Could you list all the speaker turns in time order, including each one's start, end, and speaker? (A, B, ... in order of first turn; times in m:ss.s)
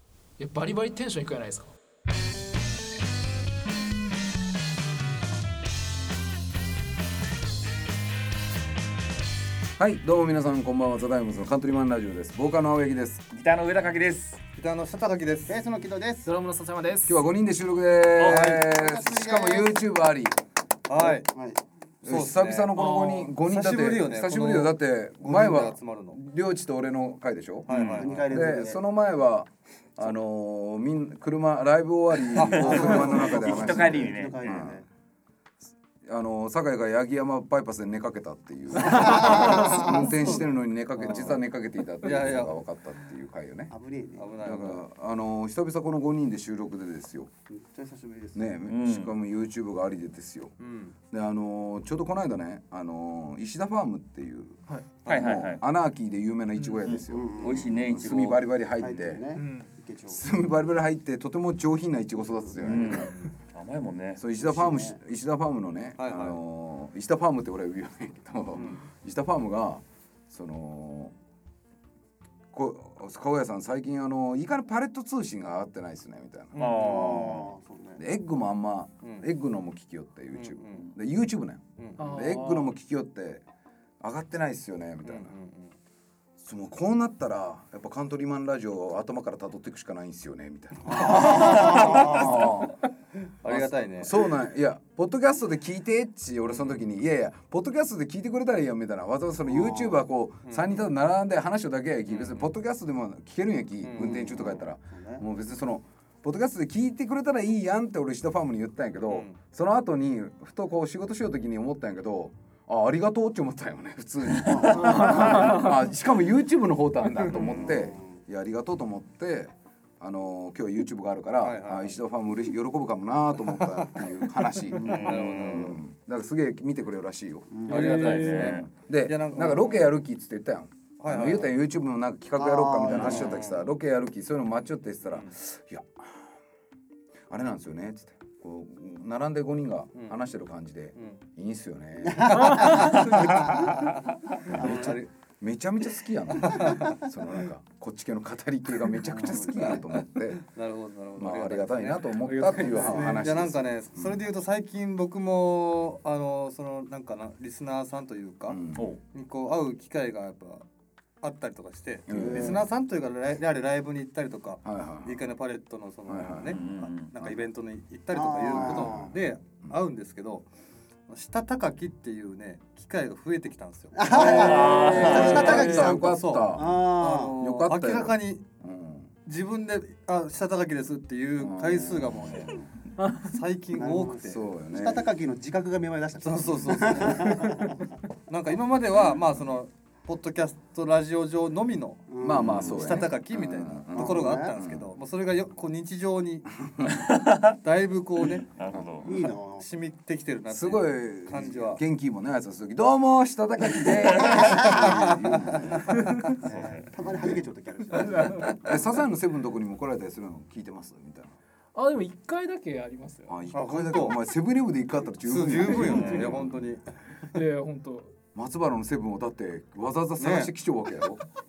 0:00.4-0:01.7 A
0:09.8-0:13.2 B
0:13.3-0:14.4 C
0:14.5-0:15.6 D
0:15.5-0:16.3 E
0:16.2-0:17.3 A
0:17.0-0:20.4 B
0:18.2-0:18.5 C
0:18.2-0:19.8 E
0:20.9-0:21.3 D
0:21.0-0:21.6 E
0:22.0-0:34.8 B
0:22.0-0:22.7 D
0:22.7-0:23.3 A
0:23.4-0:26.2 D
0:27.7-0:28.5 D
0:27.7-0:28.1 C
0:28.0-0:28.8 E
0:32.3-0:33.7 D
0:32.5-0:34.6 C
0:32.5-0:34.8 E
0:36.0-0:43.7 B
0:38.8-0:40.4 E
0:38.8-0:40.0 A
0:41.0-0:41.4 D
0:42.0-0:42.6 D
0:43.7-0:44.3 E
0:44.2-0:44.8 D
0:44.4-0:47.3 B
0:47.5-0:48.5 E
0:48.3-0:50.5 B
0:48.7-0:49.1 C
0:50.6-0:51.0 D
0:51.1-0:59.2 B
0:55.0-0:55.3 D
0:55.0-0:55.6 C
0:56.8-1:00.2 E
0:57.4-0:58.4 C
0:59.3-0:59.7 A
1:00.1-1:03.2 B
1:02.4-1:03.2 E
1:02.6-1:04.2 C
1:04.2-1:11.1 B
1:04.4-1:05.0 E
1:06.0-1:06.4 D
1:12.5-1:16.6 B
1:16.5-1:17.5 D
1:16.6-1:17.4 C
1:16.8-1:18.0 E
1:18.0-1:23.4 B
1:19.0-1:19.3 D
1:20.3-1:20.9 D
1:21.8-1:22.0 D
1:22.0-1:22.7 A
1:24.0-1:25.3 B
1:25.0-1:25.8 D
1:26.4-1:32.8 B
1:30.9-1:32.5 E
1:31.6-1:32.1 C
1:33.4-1:34.1 D
1:33.4-2:16.3 B
1:36.5-1:36.8 D
1:39.4-1:40.0 E
1:40.4-1:40.9 D
1:42.1-1:42.5 D
1:43.8-1:44.5 D
1:44.0-1:45.2 E
1:49.1-1:49.4 D
1:54.3-1:55.5 E
1:54.7-1:55.8 A
1:57.5-1:58.2 E
2:01.4-2:02.0 D
2:03.6-2:04.1 D
2:04.7-2:05.8 D
2:04.8-2:05.6 C
2:04.8-2:05.1 E
2:07.5-2:08.0 E
2:07.7-2:08.6 A
2:07.7-2:10.0 D
2:07.8-2:08.6 C
2:11.0-2:11.6 D
2:12.4-2:13.4 E
2:12.9-2:13.7 D
2:15.1-2:15.3 D
2:17.3-2:23.7 B
2:20.9-2:21.2 D
2:22.0-2:25.0 E
2:22.3-2:23.3 A
2:24.4-2:30.4 B
2:24.4-2:25.1 D
2:26.4-2:27.0 D
2:26.6-2:26.9 E
2:28.9-2:29.8 E
2:29.5-2:32.1 D
2:31.2-2:34.2 B
2:32.2-2:33.2 A
2:32.6-2:38.6 D
2:32.8-2:33.4 E
2:38.5-2:38.9 B
2:38.7-2:39.0 C
2:39.1-2:40.6 D
2:41.2-2:50.5 D
2:42.1-2:42.6 B
2:42.1-2:42.6 E
2:44.6-2:45.2 B
2:46.1-2:46.6 B
2:46.5-2:47.1 C
2:48.1-2:49.1 E
2:48.5-2:49.8 B
2:51.1-2:58.5 D
2:53.9-2:56.0 E
2:54.1-2:55.9 C
2:54.2-2:56.8 B
2:56.5-2:57.3 E
2:57.4-2:59.1 B
2:59.2-3:04.4 D
3:01.4-3:02.7 B
3:03.7-3:07.9 E
3:04.2-3:05.1 B
3:06.2-3:07.8 D
3:08.3-3:16.5 D
3:12.1-3:13.2 E
3:12.2-3:14.9 B
3:13.9-3:14.6 E
3:16.9-3:17.5 C
3:17.6-3:18.5 D
3:18.5-3:19.2 C
3:19.0-3:19.6 E
3:19.5-3:21.8 D
3:20.5-3:26.0 B
3:24.2-3:24.5 C
3:24.2-3:25.7 E
3:24.6-3:25.5 D
3:25.9-3:26.2 A
3:26.4-3:28.7 E
3:26.4-3:26.9 C
3:27.0-3:27.4 B
3:28.0-3:28.6 A
3:28.2-3:31.4 B
3:31.7-3:33.4 A
3:33.3-3:36.6 B
3:33.5-3:34.2 D
3:35.2-3:37.0 D
3:35.6-3:36.2 A
3:37.3-3:38.1 A
3:38.3-3:41.2 B
3:40.2-3:40.5 D